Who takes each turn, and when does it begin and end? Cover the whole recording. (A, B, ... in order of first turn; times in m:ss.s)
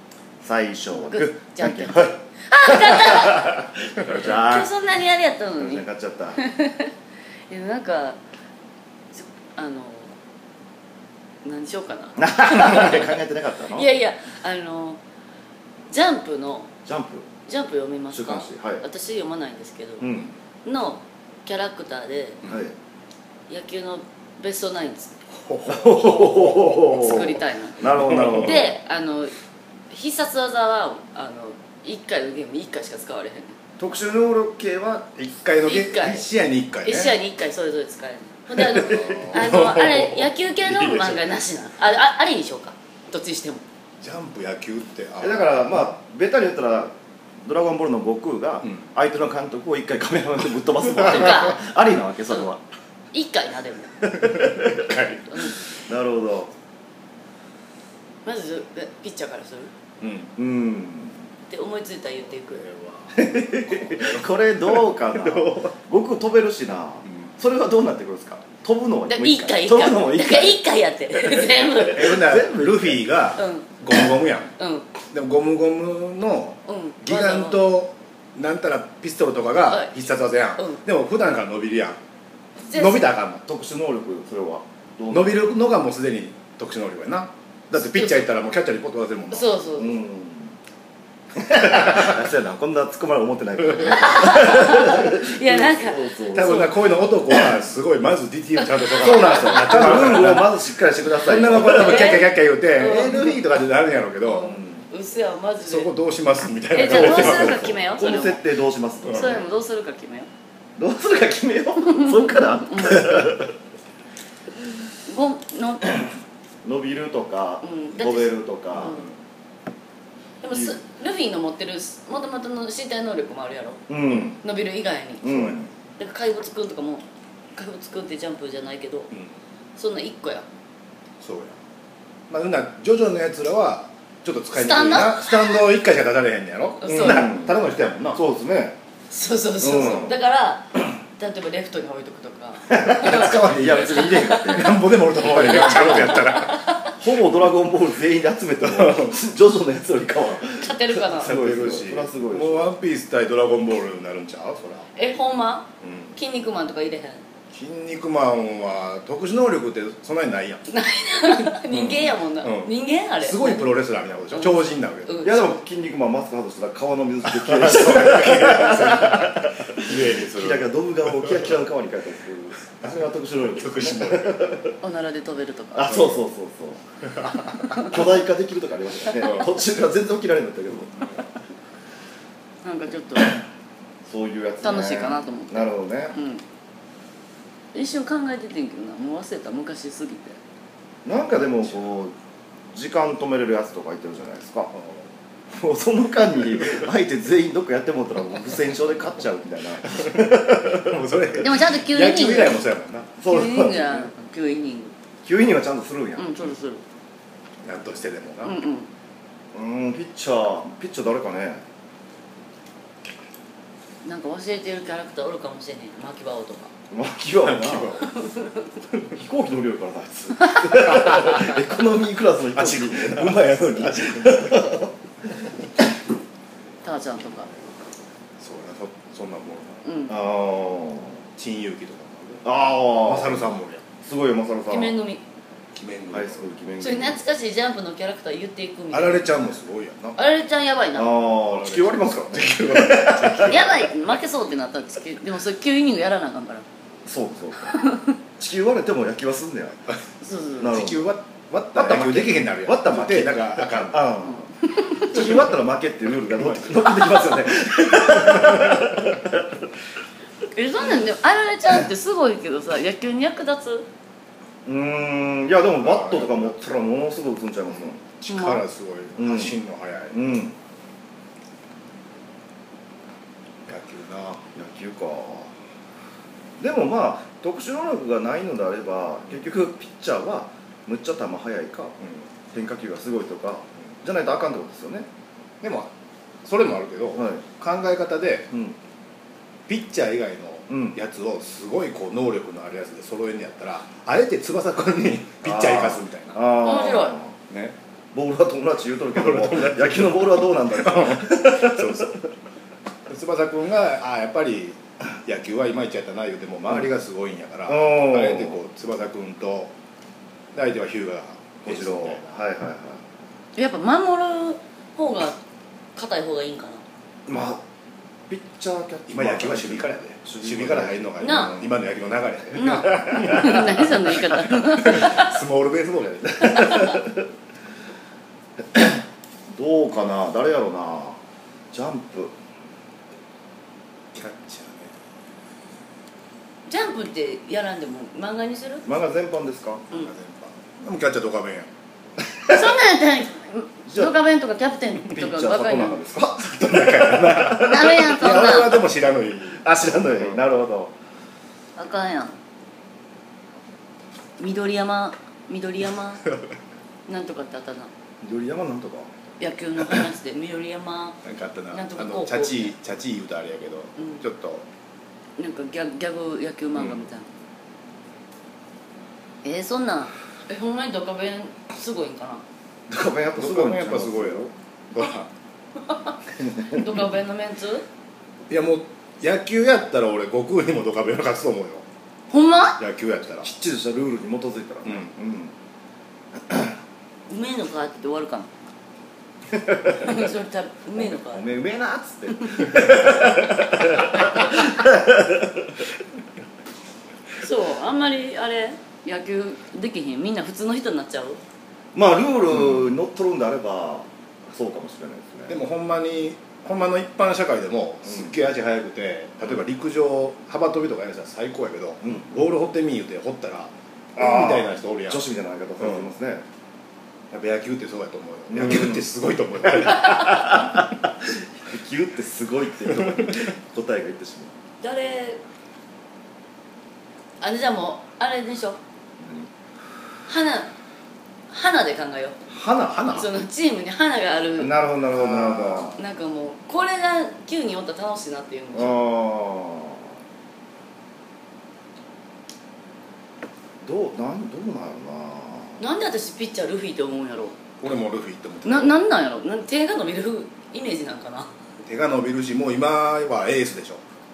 0:00.4-0:04.7 A
0:00.9-0:03.6 B
0:04.1-0:06.9 B
0:05.6-0:06.4 A
0:07.5-0:08.2 B
0:09.2-0:10.2 B
0:11.4-0:13.2 B
0:12.2-0:13.9 A
0:13.7-0:15.0 B
0:15.9-0:16.7 B
0:16.8-0:17.3 A
0:17.5-0:20.1 B
0:18.1-0:18.8 A
0:20.0-0:20.3 A
0:20.6-0:22.4 B
0:22.5-0:22.7 A
0:23.5-0:25.1 B
0:25.3-0:27.2 C
0:25.7-0:28.7 A
0:26.2-0:29.3 B
0:28.1-0:28.5 C
0:29.9-0:33.5 B
0:33.8-0:35.3 A
0:35.2-0:37.2 C
0:35.6-0:36.2 B
0:36.8-0:43.6 B
0:38.6-0:39.4 A
0:38.7-0:41.2 C
0:44.0-0:45.7 C
0:45.2-0:52.6 A
0:51.0-0:51.6 B
0:51.0-0:51.3 C
0:53.1-0:54.1 B
0:54.0-0:54.9 A
0:54.1-0:55.6 C
0:55.3-0:55.6 B
0:55.8-0:56.5 A
0:58.2-0:59.7 B
1:00.0-1:00.3 C
1:00.4-1:01.2 A
1:01.5-1:02.6 B
1:02.5-1:05.7 C
1:03.1-1:10.6 A
1:07.0-1:07.3 C
1:09.1-1:12.2 B
1:11.2-1:13.1 A
1:11.9-1:14.5 C
1:13.4-1:14.9 B
1:15.1-1:22.0 C
1:16.6-1:17.6 B
1:19.7-1:20.0 B
1:22.7-1:23.1 B
1:22.7-1:23.4 C
1:23.4-1:25.4 A
1:25.1-1:29.5 C
1:27.7-1:28.3 B
1:29.3-1:30.0 B
1:29.8-1:30.6 A
1:31.3-1:36.6 A
1:31.8-1:32.1 C
1:33.7-1:34.0 C
1:33.8-1:36.9 B
1:36.3-1:44.6 C
1:38.6-1:40.3 B
1:39.2-1:42.3 A
1:41.2-1:43.4 B
1:44.2-1:45.9 B
1:44.4-1:44.8 A
1:45.6-1:47.8 C
1:46.7-1:48.4 B
1:46.8-1:49.4 A
1:49.0-1:50.3 B
1:50.8-1:53.5 A
1:51.8-1:53.3 B
1:55.0-1:56.1 B
1:56.6-1:59.0 A
1:57.6-1:59.0 B
2:00.4-2:03.9 B
2:00.5-2:00.8 A
2:03.9-2:04.4 A
2:04.4-2:07.0 B
2:05.2-2:05.7 A
2:07.6-2:09.1 B
2:09.8-2:10.5 B
2:11.2-2:11.6 C
2:12.3-2:18.2 C
2:14.5-2:15.6 B
2:16.8-2:17.3 B
2:16.9-2:18.8 A
2:19.1-2:24.6 B
2:19.6-2:20.2 A
2:22.7-2:26.3 A
2:22.7-2:26.8 C
2:25.2-2:26.9 B
2:27.0-2:32.7 A
2:28.6-2:29.2 C
2:30.5-2:31.3 B
2:31.2-2:34.9 C
2:35.0-2:37.2 B
2:35.8-2:36.1 C
2:37.5-2:40.6 C
2:40.7-2:43.7 B
2:41.7-2:45.2 C
2:44.3-2:45.4 B
2:45.2-2:54.7 A
2:47.3-2:51.6 C
2:53.5-2:54.7 C
2:54.8-2:56.1 B
2:55.7-2:56.8 A
2:55.9-2:56.2 C
2:57.1-2:58.0 C
2:57.8-3:00.9 A
2:59.2-2:59.5 C
3:02.6-3:03.3 B
3:04.0-3:06.1 A
3:04.6-3:06.4 B
3:07.7-3:10.4 B
3:11.0-3:12.1 A
3:12.7-3:14.7 A
3:14.7-3:15.1 C
3:15.5-3:21.0 A
3:19.9-3:23.1 C
3:21.4-3:22.6 B
3:23.2-3:24.1 A
3:23.2-3:24.9 B
3:25.2-3:26.4 A
3:26.2-3:26.8 B
3:27.6-3:28.6 C
3:28.4-3:28.9 B
3:29.5-3:31.6 A
3:34.0-3:36.7 B
3:36.9-3:38.0 A
3:37.4-3:38.2 C
3:38.1-3:38.6 B
3:39.1-3:44.9 A
3:40.7-3:41.6 C
3:42.5-3:44.8 C
3:46.8-3:47.5 B
3:48.4-3:49.8 C
3:49.8-3:50.1 B
3:50.1-3:51.2 A
3:51.4-3:53.8 C
3:52.4-3:54.9 A
3:54.7-3:55.2 B
3:55.7-3:56.5 C
3:56.1-3:57.2 A
3:56.8-3:59.5 B
3:58.9-4:00.2 C
4:00.2-4:01.1 B
4:00.9-4:03.6 A
4:01.5-4:03.9 C
4:03.4-4:06.6 B
4:07.0-4:07.8 A
4:07.8-4:08.1 B
4:08.4-4:09.8 A
4:10.2-4:10.8 B
4:10.6-4:11.1 A
4:10.6-4:14.1 C
4:11.7-4:19.7 A
4:14.3-4:15.2 B
4:16.4-4:16.7 C
4:18.3-4:19.1 C
4:20.5-4:23.9 B
4:24.6-4:28.0 A
4:25.8-4:26.8 C
4:28.1-4:30.2 C
4:28.3-4:28.6 B
4:29.2-4:29.6 A
4:30.1-4:30.6 A
4:33.7-4:34.4 C
4:34.5-4:35.6 A
4:36.6-4:42.0 A
4:42.5-4:45.1 A
4:45.6-4:45.9 C
4:46.4-4:48.5 C
4:47.2-4:47.4 A
4:48.5-4:48.8 A
4:49.7-4:56.4 C
4:50.7-4:51.0 A
4:55.4-4:57.5 A
4:56.6-4:57.2 B
4:58.1-5:02.2 A
4:59.1-5:02.2 C
5:03.1-5:09.7 C
5:07.7-5:08.6 A
5:10.5-5:12.3 C
5:11.6-5:13.0 A
5:13.6-5:15.4 B
5:16.0-5:16.8 B
5:17.3-5:17.6 A
5:18.3-5:21.7 A
5:19.1-5:27.0 C
5:21.2-5:21.6 B
5:22.5-5:25.4 B
5:22.8-5:23.6 A
5:26.4-5:27.0 B
5:26.8-5:27.1 A
5:28.7-5:31.2 A
5:31.7-5:32.4 A
5:34.1-5:34.9 C
5:36.7-5:38.9 B
5:38.8-5:39.8 A
5:39.9-5:41.7 C
5:42.4-5:46.0 B
5:43.9-5:44.1 A
5:45.0-5:48.1 A
5:46.4-5:50.4 C
5:47.6-5:48.8 B
5:49.6-5:50.9 A
5:51.8-5:52.4 B
5:54.4-5:56.2 B
5:57.1-5:57.9 B
5:58.2-5:59.1 A
5:59.4-6:01.2 B
6:01.2-6:04.6 C
6:01.7-6:02.7 B
6:04.0-6:04.2 B
6:05.4-6:07.3 B
6:06.7-6:07.0 C
6:09.4-6:12.4 B
6:12.9-6:14.5 A
6:13.4-6:15.3 C
6:16.6-6:17.8 B
6:18.5-6:21.8 C
6:22.3-6:22.8 B
6:22.8-6:23.5 C
6:23.4-6:25.5 A
6:24.8-6:25.1 C
6:26.4-6:26.8 A
6:27.3-6:28.5 B
6:29.5-6:30.1 A
6:29.9-6:31.4 B
6:31.0-6:35.8 A
6:37.4-6:41.4 B
6:41.9-6:45.6 A
6:45.5-6:55.2 C
6:48.1-6:48.3 A
6:52.0-6:52.3 A
6:54.2-6:56.4 A
6:55.8-6:56.1 C
6:57.3-7:00.9 C
6:58.5-6:59.0 A
6:59.8-7:04.5 A
7:04.8-7:05.4 B
7:07.4-7:08.8 B
7:09.2-7:09.5 A
7:10.3-7:10.7 B
7:11.5-7:12.4 B
7:12.5-7:13.1 A
7:12.9-7:13.3 C
7:13.1-7:14.9 B
7:14.6-7:16.0 A
7:15.1-7:15.9 C
7:15.9-7:19.0 B
7:18.7-7:20.1 A
7:23.8-7:25.8 A
7:25.8-7:27.6 B
7:27.8-7:29.0 C
7:28.6-7:31.5 B
7:31.8-7:34.0 C